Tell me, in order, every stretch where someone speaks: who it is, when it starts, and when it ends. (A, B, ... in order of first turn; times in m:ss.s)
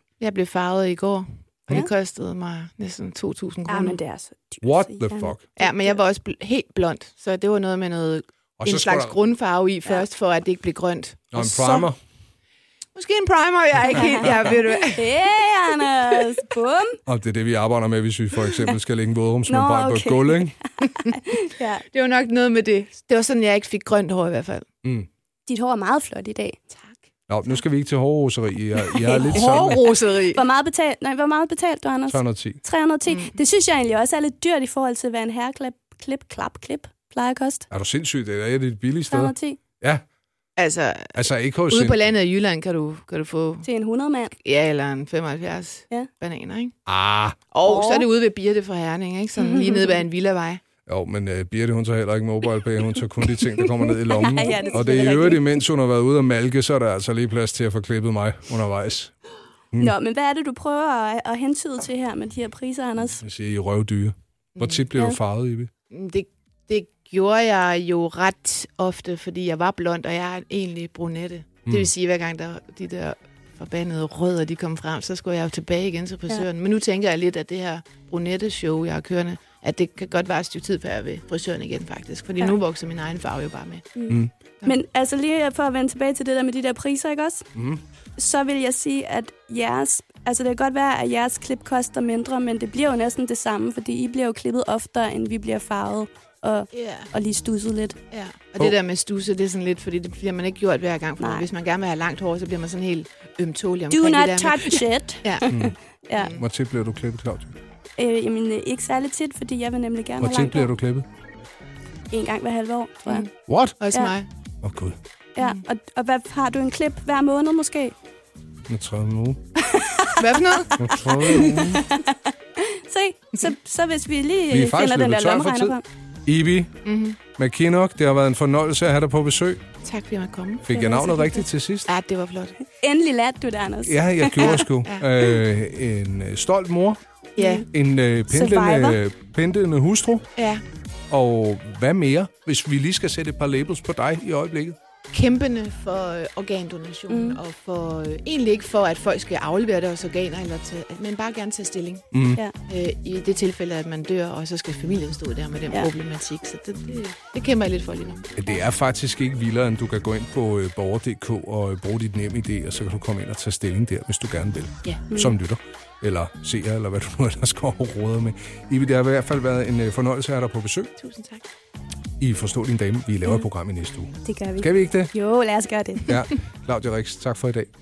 0:00.2-0:04.0 A
0:03.7-0:06.0 B
0:04.6-0:05.4 C
0:05.6-0:11.9 A
0:08.6-0:09.2 C
0:11.3-0:12.0 C
0:12.9-0:15.1 A
0:13.9-0:17.0 B
0:17.0-0:20.5 C
0:19.5-0:21.8 B
0:21.8-0:24.6 A
0:25.5-0:26.6 B
0:26.7-0:27.0 A
0:27.3-0:29.9 C
0:29.0-0:29.5 B
0:29.0-0:30.4 A
0:30.3-0:37.7 B
0:32.1-0:32.6 C
0:33.1-0:33.4 A
0:37.7-0:40.0 C
0:39.1-0:39.6 B
0:40.6-0:43.6 A
0:41.1-0:42.0 C
0:43.6-0:44.3 B
0:44.3-0:46.7 A
0:46.8-0:47.4 C
0:47.5-0:50.6 A
0:47.6-0:48.1 B
0:49.4-0:50.0 B
0:50.8-0:59.1 C
0:54.1-0:55.5 B
0:59.8-1:03.2 B
1:03.2-1:05.7 C
1:04.6-1:04.8 A
1:05.9-1:24.0 A
1:24.0-1:27.5 B
1:27.5-1:27.8 C
1:28.2-1:38.0 B
1:36.7-1:37.1 A
1:38.1-1:45.5 A
1:41.2-1:41.5 B
1:43.9-1:46.4 B
1:45.5-1:45.7 C
1:46.1-1:46.4 A
1:46.3-1:47.5 C
1:48.0-1:50.7 B
1:50.2-1:51.0 C
1:52.1-1:53.2 B
1:53.0-1:54.3 A
1:53.5-1:53.8 C
1:54.6-1:55.0 C
1:55.4-1:57.9 B
1:58.7-1:59.4 C
1:59.6-2:05.8 B
2:00.2-2:00.7 A
2:00.8-2:01.8 C
2:04.5-2:05.7 C
2:06.2-2:06.7 C
2:06.8-2:07.2 A
2:07.3-2:09.6 C
2:09.8-2:10.9 A
2:10.6-2:11.9 C
2:10.7-2:11.4 B
2:11.8-2:12.6 A
2:12.7-2:14.6 B
2:13.8-2:17.0 C
2:14.4-2:15.1 A
2:17.4-2:17.6 B
2:17.4-2:17.6 A
2:17.6-2:20.3 C
2:18.3-2:19.0 B
2:20.4-2:20.6 A
2:21.1-2:24.8 C
2:25.1-2:32.1 A
2:27.1-2:27.4 B
2:32.1-2:32.4 C
2:32.6-2:38.4 A
2:38.4-2:50.9 C
2:45.1-2:45.4 B
2:51.0-2:51.4 A
2:52.2-2:55.1 C
2:54.2-2:56.2 B
2:56.1-2:57.7 C